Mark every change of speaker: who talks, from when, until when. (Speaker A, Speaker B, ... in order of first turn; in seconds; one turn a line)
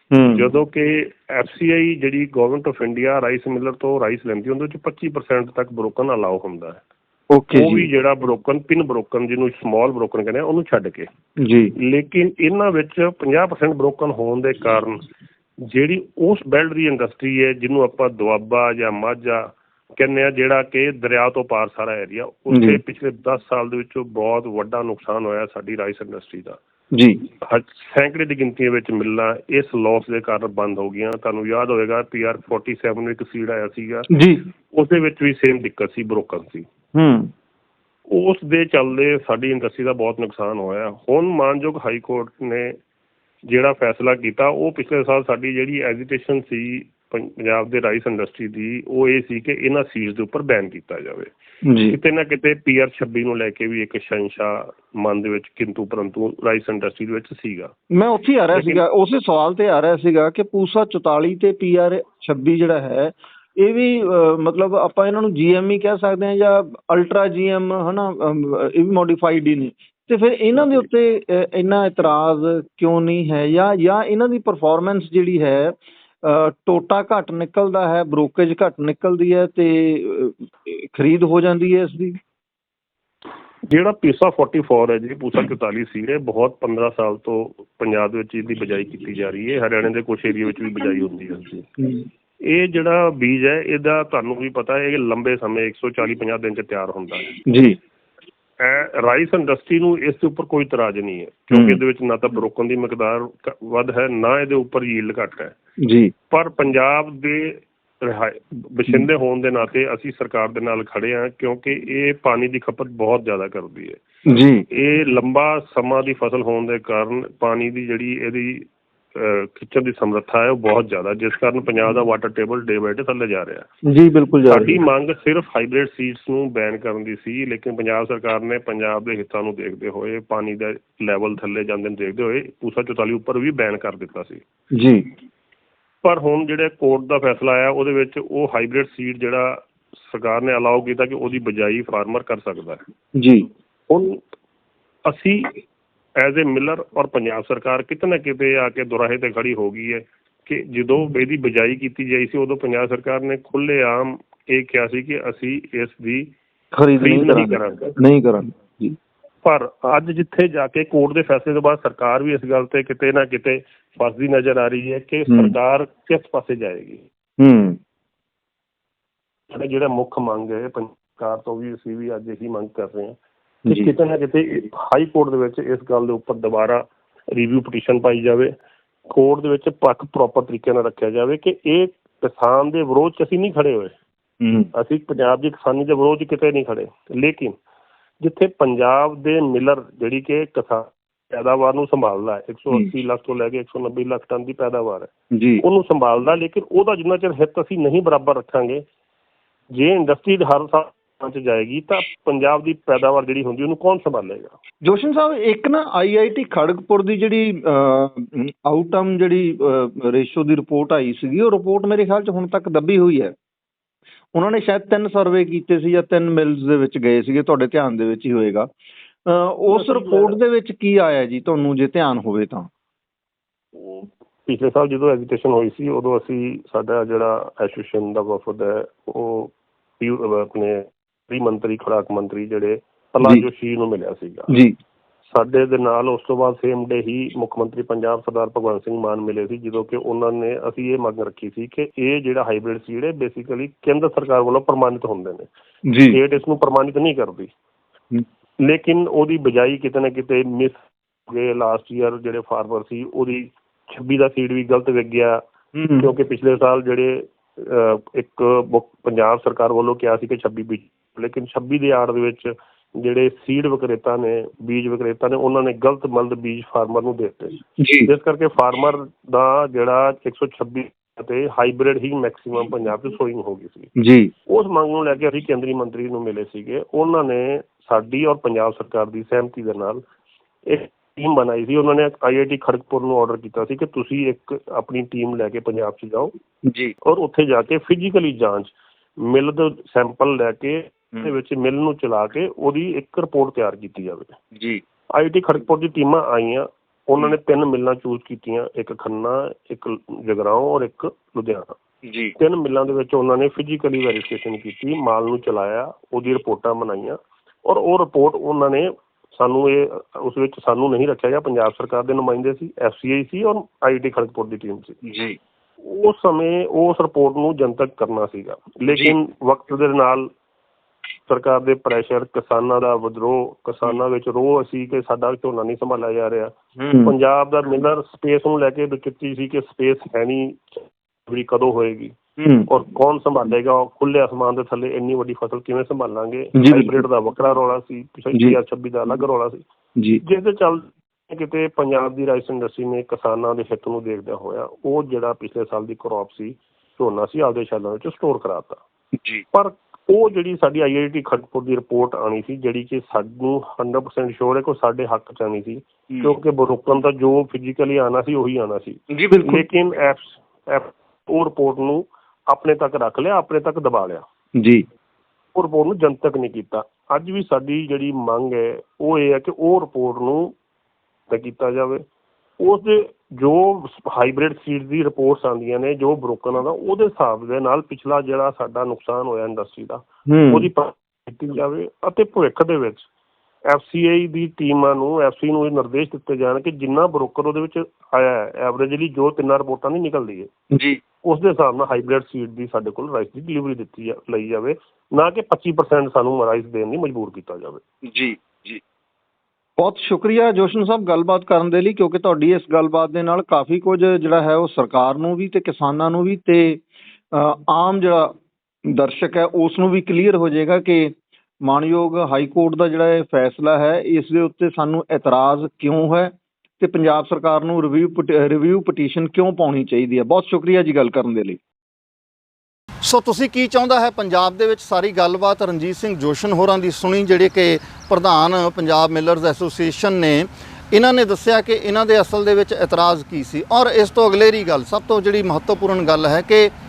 Speaker A: 0.1-0.5
Speaker B: 0.3-6.8
Speaker A: 7.3-7.9
Speaker B: 7.5-11.1
Speaker A: 11.4-11.7
Speaker B: 11.8-15.0
Speaker B: 15.6-26.6
Speaker A: 22.5-22.8
Speaker A: 26.9-27.3
Speaker B: 27.4-34.1
Speaker A: 34.1-34.5
Speaker B: 34.7-36.7
Speaker A: 37.0-37.3
Speaker B: 38.1-42.8
Speaker B: 43.5-51.3
Speaker A: 51.6-52.0
Speaker B: 51.9-57.7
Speaker A: 57.9-82.2
Speaker B: 58.5-58.8
Speaker B: 83.7-91.7
Speaker B: 92.5-97.4
Speaker A: 97.5-97.8
Speaker B: 98.6-105.5
Speaker A: 101.5-101.8
Speaker A: 105.8-106.1
Speaker B: 106.3-114.0
Speaker A: 114.3-114.7
Speaker B: 114.7-123.7
Speaker A: 123.8-124.8
Speaker B: 124.5-134.4
Speaker A: 134.7-135.1
Speaker B: 136.0-142.8
Speaker A: 143.2-143.5
Speaker B: 143.9-144.2
Speaker B: 145.1-145.6
Speaker B: 146.2-156.3
Speaker A: 156.8-159.0
Speaker B: 157.0-157.9
Speaker B: 159.4-167.1
Speaker A: 165.3-165.6
Speaker A: 167.4-167.8
Speaker B: 169.5-178.5
Speaker B: 179.1-183.9
Speaker A: 184.4-184.7
Speaker B: 184.7-187.6
Speaker B: 188.2-198.8
Speaker A: 195.3-195.6
Speaker B: 199.7-204.5
Speaker A: 204.8-213.3
Speaker A: 214.3-218.7
Speaker A: 219.3-222.7
Speaker B: 219.7-220.4
Speaker B: 223.8-234.5
Speaker A: 234.5-234.7
Speaker B: 235.3-245.5
Speaker A: 245.9-246.2
Speaker B: 246.1-247.5
Speaker B: 248.6-255.4
Speaker A: 255.8-256.1
Speaker B: 256.0-273.9
Speaker A: 267.8-268.1
Speaker A: 274.0-274.3
Speaker B: 274.5-280.1
Speaker B: 280.7-286.3
Speaker A: 286.6-286.9
Speaker B: 287.0-294.4
Speaker A: 294.6-294.8
Speaker B: 295.1-301.7
Speaker A: 302.1-302.4
Speaker B: 302.4-315.0
Speaker A: 315.0-315.4
Speaker B: 315.8-320.3
Speaker B: 321.3-326.5
Speaker A: 326.8-327.1
Speaker B: 327.1-332.2
Speaker A: 332.4-332.7
Speaker B: 332.7-339.6
Speaker A: 336.6-337.0
Speaker A: 338.3-338.6
Speaker B: 340.2-348.8
Speaker A: 349.2-349.4
Speaker B: 349.5-364.2
Speaker A: 359.1-359.7
Speaker A: 364.6-364.9
Speaker B: 365.6-370.6
Speaker B: 371.3-372.1
Speaker B: 372.6-383.1
Speaker A: 380.3-380.7
Speaker B: 383.7-390.5
Speaker A: 390.7-391.0
Speaker B: 391.2-397.8
Speaker A: 398.1-398.8
Speaker A: 399.8-408.3
Speaker A: 408.9-421.6
Speaker C: 423.0-436.7